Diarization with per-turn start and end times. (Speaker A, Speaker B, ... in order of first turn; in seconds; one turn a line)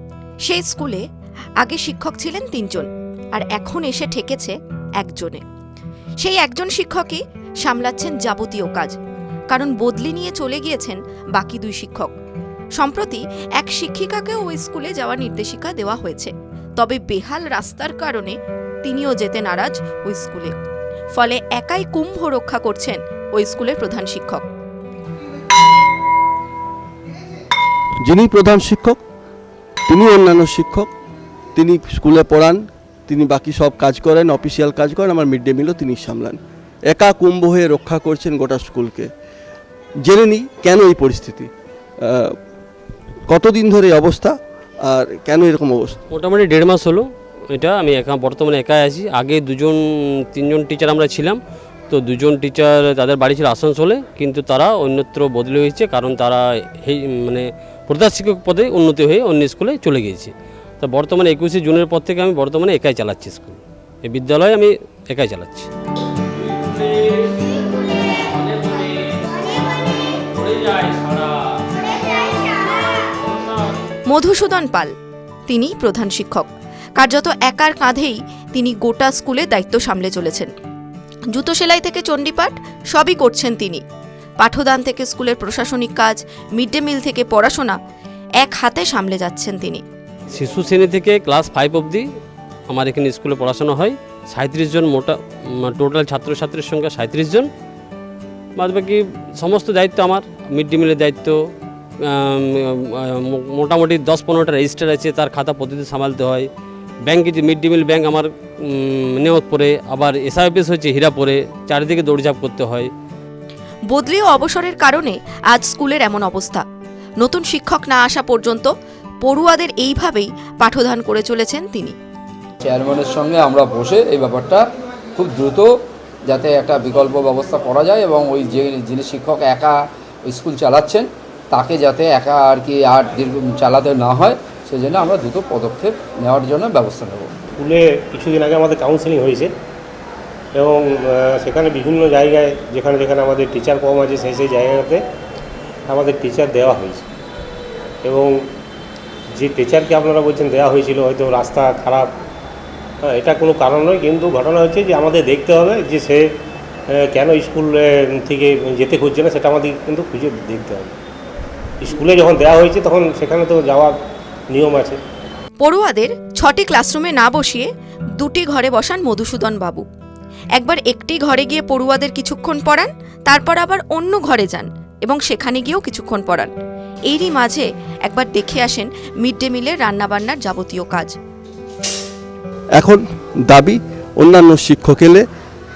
Speaker A: 0.5-1.0
Speaker A: 1.6-5.4
Speaker A: 6.2-9.0
Speaker A: 9.5-12.1
Speaker A: 12.8-20.5
Speaker A: 21.1-24.4
Speaker B: 28.1-29.0
Speaker B: 29.9-30.9
Speaker B: 31.6-39.1
Speaker B: 40.0-41.5
Speaker B: 42.0-42.4
Speaker B: 43.3-46.0
Speaker C: 46.1-49.8
Speaker C: 50.3-51.4
Speaker C: 51.9-65.7
Speaker C: 66.3-73.8
Speaker A: 74.1-74.9
Speaker A: 75.5-80.5
Speaker A: 81.3-83.8
Speaker A: 84.4-87.8
Speaker A: 88.4-89.8
Speaker C: 90.3-92.0
Speaker C: 92.7-97.5
Speaker C: 98.6-101.4
Speaker C: 102.0-106.5
Speaker C: 107.1-112.9
Speaker A: 113.9-116.6
Speaker A: 117.2-118.7
Speaker A: 119.2-121.9
Speaker D: 122.6-125.7
Speaker D: 126.3-137.3
Speaker E: 137.6-139.5
Speaker E: 140.5-145.0
Speaker E: 145.9-147.1
Speaker E: 148.0-148.3
Speaker E: 149.3-152.1
Speaker E: 153.0-156.2
Speaker E: 156.9-160.9
Speaker E: 161.8-163.9
Speaker E: 164.5-165.0
Speaker A: 165.6-167.7
Speaker A: 168.2-169.8
Speaker A: 170.6-176.5
Speaker A: 177.1-181.1
Speaker B: 182.8-185.2